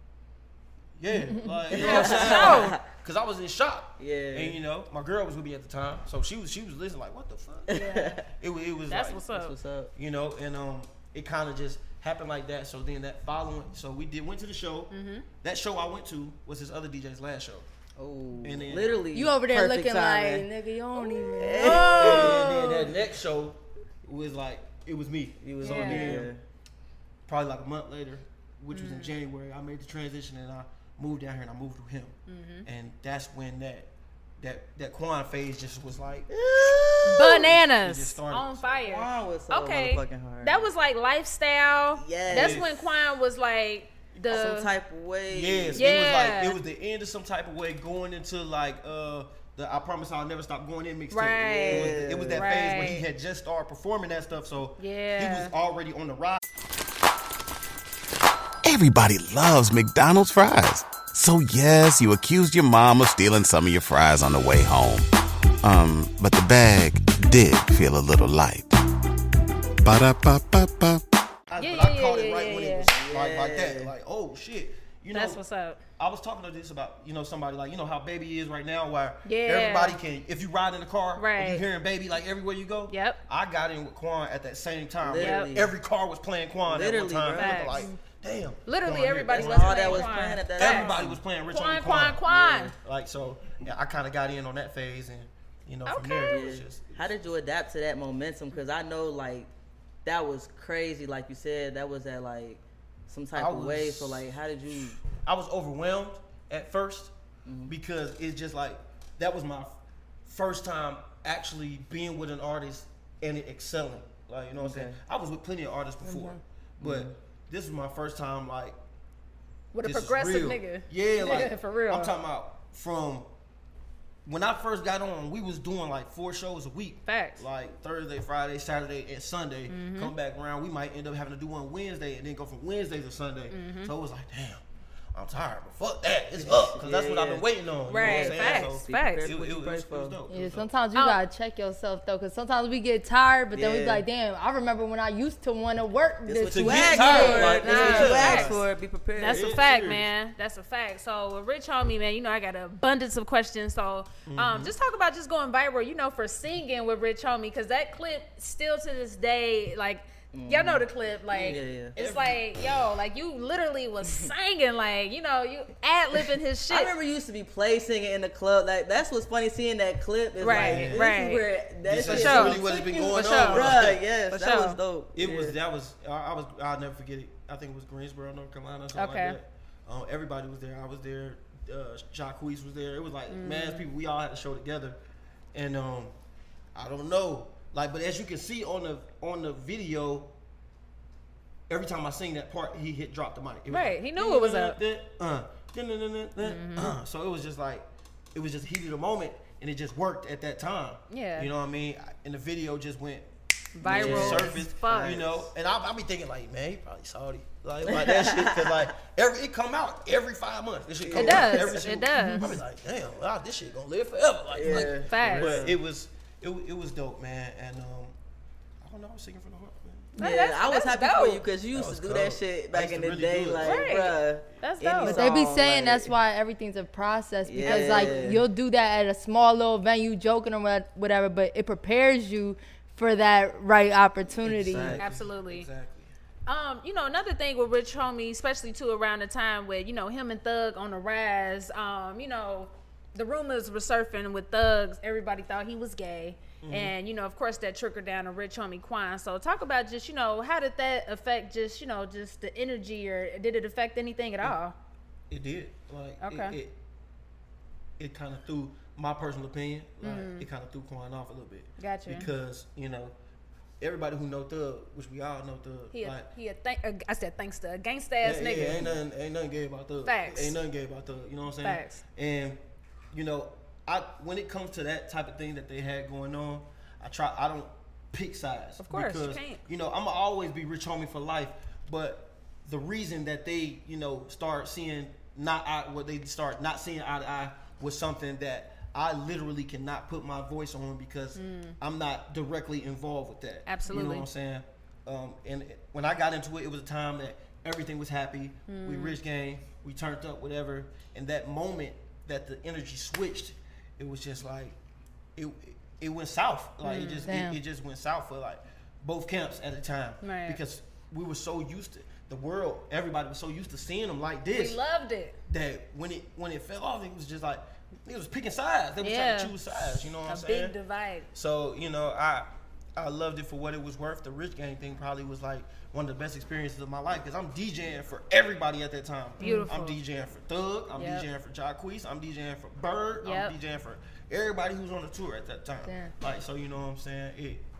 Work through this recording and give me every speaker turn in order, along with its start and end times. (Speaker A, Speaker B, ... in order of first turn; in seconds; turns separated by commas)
Speaker A: 1.0-9.3, Speaker B: 1.2-1.5, Speaker C: 1.7-2.8, Speaker D: 1.7-2.8, Speaker C: 4.0-4.6, Speaker C: 7.7-8.2, Speaker D: 7.7-8.2, Speaker D: 8.9-9.5, Speaker C: 9.3-9.9, Speaker A: 9.9-17.7, Speaker D: 14.9-15.2, Speaker C: 18.0-22.9, Speaker A: 18.4-19.0, Speaker B: 19.1-22.4, Speaker A: 21.6-26.3, Speaker C: 25.4-26.4, Speaker D: 25.6-26.3, Speaker A: 27.3-38.9, Speaker D: 28.7-29.1, Speaker D: 32.3-32.6, Speaker C: 36.3-37.5, Speaker D: 37.1-44.7, Speaker C: 38.8-40.6, Speaker C: 42.0-42.7, Speaker A: 42.3-42.8, Speaker C: 44.3-45.9, Speaker A: 45.3-56.4, Speaker D: 45.8-46.6, Speaker D: 51.1-53.0, Speaker C: 51.5-52.5, Speaker D: 54.8-55.5, Speaker E: 58.6-65.1, Speaker E: 65.6-68.7, Speaker E: 69.8-71.0, Speaker A: 71.5-75.4, Speaker D: 71.6-72.9, Speaker C: 72.9-73.9, Speaker D: 75.1-75.8, Speaker A: 76.0-92.2, Speaker D: 79.2-80.0, Speaker D: 81.2-81.6, Speaker D: 82.9-83.2, Speaker C: 85.0-85.7, Speaker D: 85.2-85.5, Speaker C: 86.7-87.8, Speaker D: 87.3-87.9, Speaker D: 88.7-90.9, Speaker C: 89.3-91.2, Speaker D: 91.5-92.7, Speaker C: 92.3-92.7, Speaker A: 92.8-97.1, Speaker D: 95.8-96.5, Speaker C: 96.3-99.5, Speaker C: 100.0-105.0, Speaker A: 103.3-107.1, Speaker C: 107.5-107.7, Speaker A: 107.7-118.8, Speaker C: 114.6-115.0, Speaker B: 116.0-116.3, Speaker C: 116.8-117.1, Speaker D: 119.7-122.1, Speaker A: 119.8-123.3, Speaker A: 124.2-134.6, Speaker D: 127.0-127.5, Speaker D: 129.7-130.1, Speaker D: 133.5-133.9, Speaker A: 135.1-140.7, Speaker C: 136.4-140.2, Speaker D: 137.9-139.2, Speaker B: 140.3-148.3, Speaker D: 140.9-141.2, Speaker C: 143.5-144.0, Speaker C: 146.2-149.4, Speaker A: 146.5-148.6, Speaker D: 147.0-148.6, Speaker D: 149.2-166.9, Speaker A: 149.2-150.1, Speaker A: 154.3-154.7, Speaker C: 160.3-161.9, Speaker A: 161.3-162.8, Speaker C: 166.7-175.6, Speaker D: 170.4-171.5, Speaker A: 170.5-171.1, Speaker A: 171.8-174.0, Speaker D: 172.1-174.8, Speaker A: 175.1-185.0, Speaker D: 178.9-179.4, Speaker D: 183.3-183.8, Speaker A: 185.5-186.1, Speaker A: 186.7-190.3, Speaker A: 191.7-203.3, Speaker D: 193.7-194.8, Speaker D: 196.4-196.9, Speaker D: 201.1-201.5, Speaker D: 203.8-205.2, Speaker A: 203.8-218.2, Speaker C: 203.8-205.3, Speaker C: 207.9-208.7, Speaker C: 211.0-211.8, Speaker D: 211.1-212.6, Speaker B: 212.2-212.4, Speaker C: 214.5-215.8, Speaker D: 214.7-215.6, Speaker A: 218.8-220.2, Speaker D: 220.2-221.4, Speaker C: 220.2-226.1, Speaker A: 221.7-223.9, Speaker D: 223.6-225.2, Speaker B: 225.0-235.0, Speaker C: 227.4-228.4, Speaker D: 227.6-228.2, Speaker A: 234.4-236.1, Speaker C: 234.5-235.0, Speaker D: 235.0-235.7, Speaker D: 236.5-254.7, Speaker A: 246.6-246.9, Speaker A: 255.3-256.8, Speaker D: 256.2-256.6, Speaker A: 258.0-263.1, Speaker D: 260.0-260.5, Speaker D: 261.8-262.3, Speaker A: 263.8-266.3, Speaker D: 265.9-268.9, Speaker A: 268.2-272.6, Speaker D: 270.0-270.6, Speaker D: 271.6-272.0, Speaker A: 273.1-304.8, Speaker D: 278.8-279.6, Speaker D: 291.4-291.8, Speaker D: 293.7-294.3, Speaker D: 298.7-299.2, Speaker A: 305.4-314.8, Speaker D: 306.8-307.3, Speaker B: 307.2-307.6, Speaker D: 310.2-310.6, Speaker D: 314.5-315.4, Speaker A: 315.5-320.8, Speaker D: 319.0-319.6, Speaker D: 320.2-321.3, Speaker A: 321.3-337.6, Speaker D: 329.4-330.0, Speaker D: 331.0-331.2, Speaker D: 333.2-333.5, Speaker B: 335.8-336.1